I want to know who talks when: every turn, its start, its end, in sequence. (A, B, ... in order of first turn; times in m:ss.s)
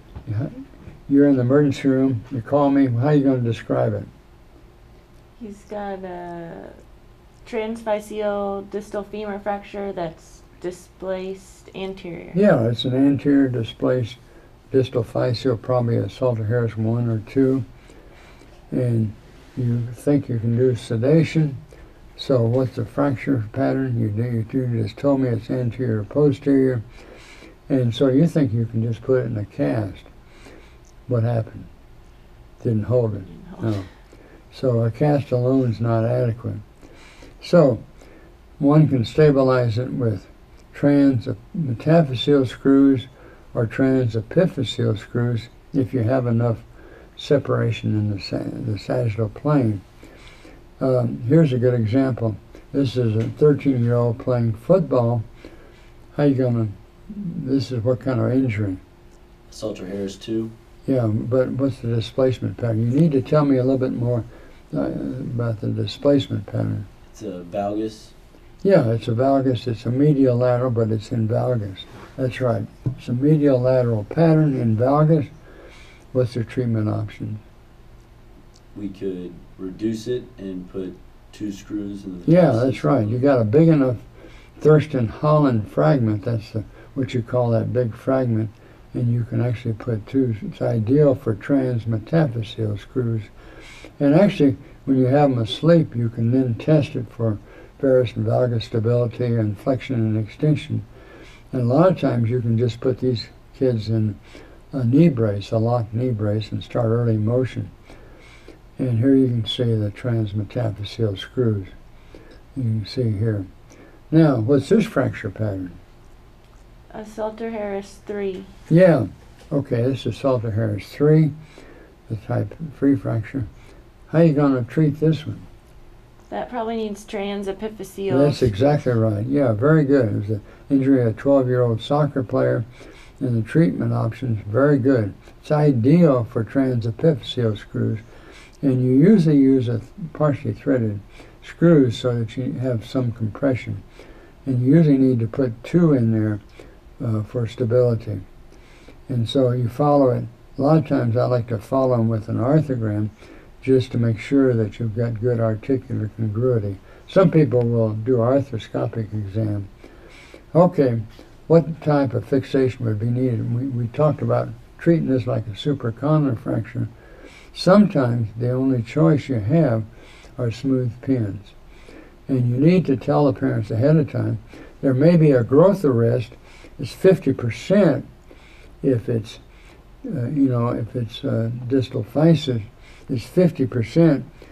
0:00.2-0:04.1 A
0:05.4-0:06.8 B
0:07.4-0:12.4 B
0:12.3-0:14.2 A
0:14.7-0:17.6 A
0:18.7-0:21.6 A
0:22.2-0:26.8 A
0:27.7-0:30.1 A
0:31.1-0:31.7 A
0:32.6-0:33.9 A
0:34.5-0:36.6 A
0:37.4-0:37.8 A
0:38.6-0:46.6 A
0:47.2-0:49.8 A
0:50.8-0:55.2 A
0:56.1-0:58.8 A
0:59.5-1:00.5 C
1:00.8-1:06.9 A
1:07.1-1:08.1 C
1:08.6-1:15.3 A
1:16.1-1:17.4 A
1:18.7-1:23.2 C
1:22.2-1:24.0 A
1:24.6-1:33.3 A
1:34.0-1:40.8 A
1:41.5-1:44.2 A
1:44.7-1:47.7 A
1:48.8-1:51.7 A
1:52.5-1:53.5 A
1:54.1-1:55.8 A
1:56.9-1:58.5 B
1:58.7-2:01.3 A
2:02.1-2:03.5 A
2:04.1-2:05.4 A
2:06.3-2:08.5 B
2:08.1-2:12.6 A
2:13.2-2:18.0 A
2:18.6-2:23.8 A
2:24.4-2:26.4 A
2:27.0-2:28.2 A
2:29.1-2:39.7 A
2:40.5-2:46.9 A
2:47.5-2:49.8 A
2:50.4-2:51.5 A
2:52.3-2:58.0 A
2:58.8-2:59.4 A
3:00.0-3:04.3 A